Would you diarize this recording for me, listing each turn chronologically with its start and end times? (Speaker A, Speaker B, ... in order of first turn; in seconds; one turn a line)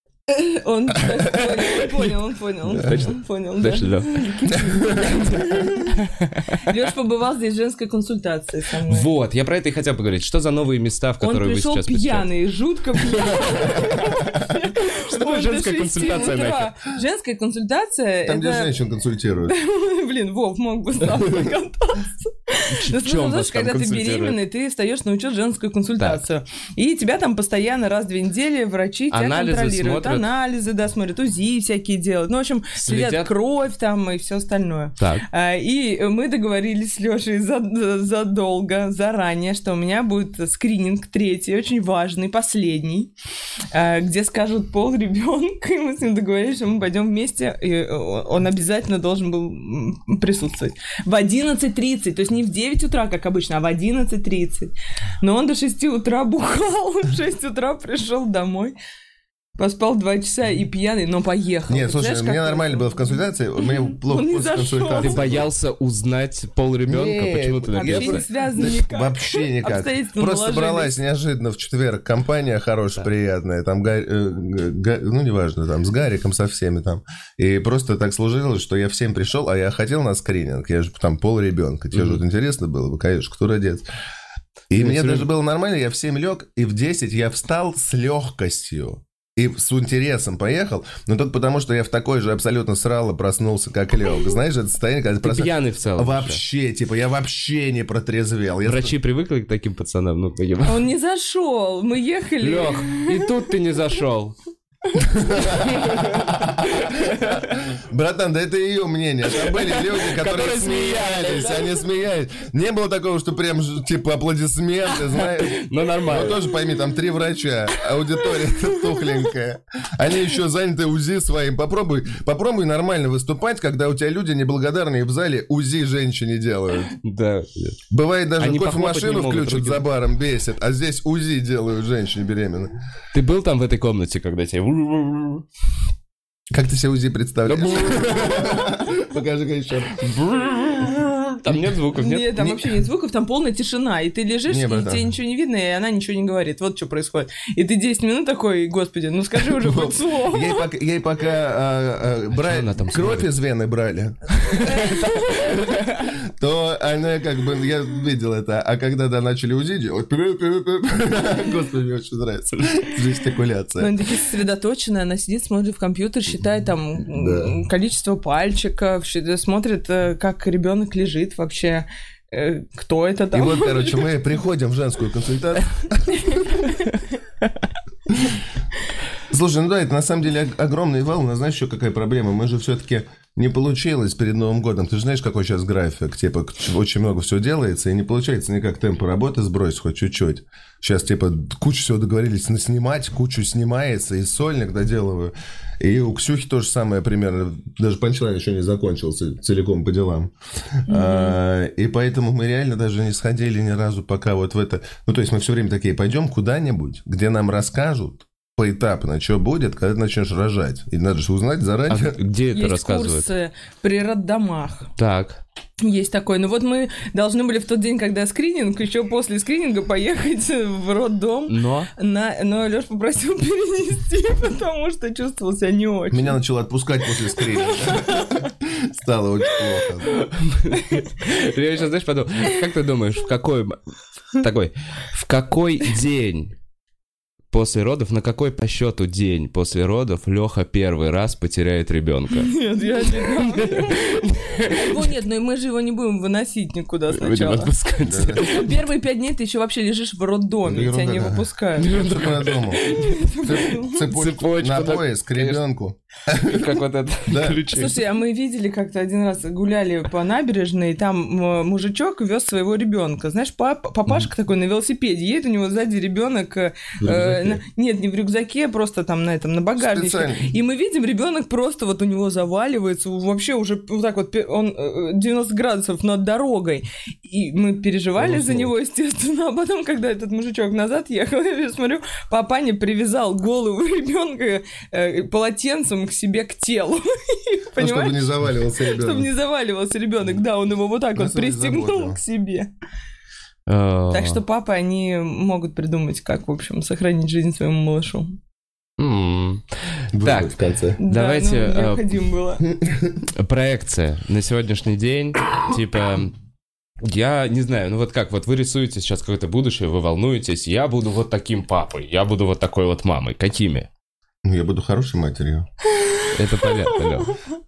Speaker A: 0.3-5.9
Speaker B: 2.7-4.2
Speaker C: 4.5-5.4
Speaker B: 5.9-6.7
Speaker A: 6.6-9.1
Speaker B: 8.8-12.3
Speaker A: 11.2-18.7
Speaker B: 13.1-14.2
Speaker B: 14.8-16.7
Speaker C: 18.3-19.5
Speaker A: 19.4-43.1
Speaker B: 22.7-24.4
Speaker B: 29.1-30.3
Speaker B: 32.8-33.3
Speaker B: 35.0-35.2
Speaker A: 43.7-58.8
Speaker A: 59.6-63.2
Speaker C: 61.7-65.5
Speaker A: 64.0-65.2
Speaker B: 65.0-68.3
Speaker C: 66.8-83.8
Speaker A: 67.7-70.9
Speaker B: 82.0-82.2
Speaker C: 84.7-99.0
Speaker B: 84.7-85.3
Speaker B: 95.2-96.4
Speaker B: 98.7-100.9
Speaker A: 100.7-103.3
Speaker B: 102.4-104.3
Speaker C: 105.0-126.9
Speaker B: 105.5-107.5
Speaker B: 109.4-111.7
Speaker B: 115.2-116.4
Speaker B: 126.9-127.8
Speaker C: 127.9-132.7
Speaker B: 128.4-129.8
Speaker B: 133.1-135.4
Speaker C: 136.5-140.2
Speaker B: 137.5-138.8
Speaker B: 140.2-140.8
Speaker B: 141.4-142.6
Speaker A: 141.9-150.7
Speaker C: 144.5-145.1
Speaker C: 149.5-164.0
Speaker B: 152.4-153.3
Speaker A: 154.5-155.7
Speaker A: 163.8-174.1
Speaker C: 167.1-167.6
Speaker C: 173.3-176.6
Speaker A: 176.3-176.9
Speaker C: 179.3-212.2
Speaker A: 200.9-201.4
Speaker B: 211.9-213.3
Speaker A: 212.5-214.9
Speaker B: 215.0-215.4
Speaker A: 215.8-226.4
Speaker B: 221.5-221.9
Speaker C: 226.1-230.2
Speaker A: 227.6-228.5
Speaker B: 230.1-233.8
Speaker B: 234.3-236.5
Speaker B: 237.5-242.5
Speaker A: 242.3-244.1
Speaker B: 243.1-245.1
Speaker A: 244.6-247.7
Speaker B: 247.1-248.8
Speaker C: 248.0-248.4
Speaker A: 248.4-251.9
Speaker C: 250.7-252.8
Speaker B: 251.8-255.6
Speaker A: 252.8-254.0
Speaker C: 253.4-256.7
Speaker B: 256.4-258.0
Speaker C: 257.3-257.6
Speaker A: 257.7-288.3
Speaker C: 267.0-267.6
Speaker C: 269.8-270.5
Speaker C: 278.2-278.7
Speaker C: 287.8-289.3
Speaker A: 288.8-292.7
Speaker C: 291.1-292.2
Speaker B: 293.7-294.4
Speaker A: 294.1-298.4
Speaker B: 299.0-299.6
Speaker C: 300.1-301.0
Speaker B: 300.2-300.5
Speaker A: 301.0-302.6
Speaker B: 301.1-302.1
Speaker C: 302.6-303.2
Speaker B: 303.3-306.3
Speaker B: 307.0-313.9
Speaker C: 314.4-315.7
Speaker B: 316.3-317.4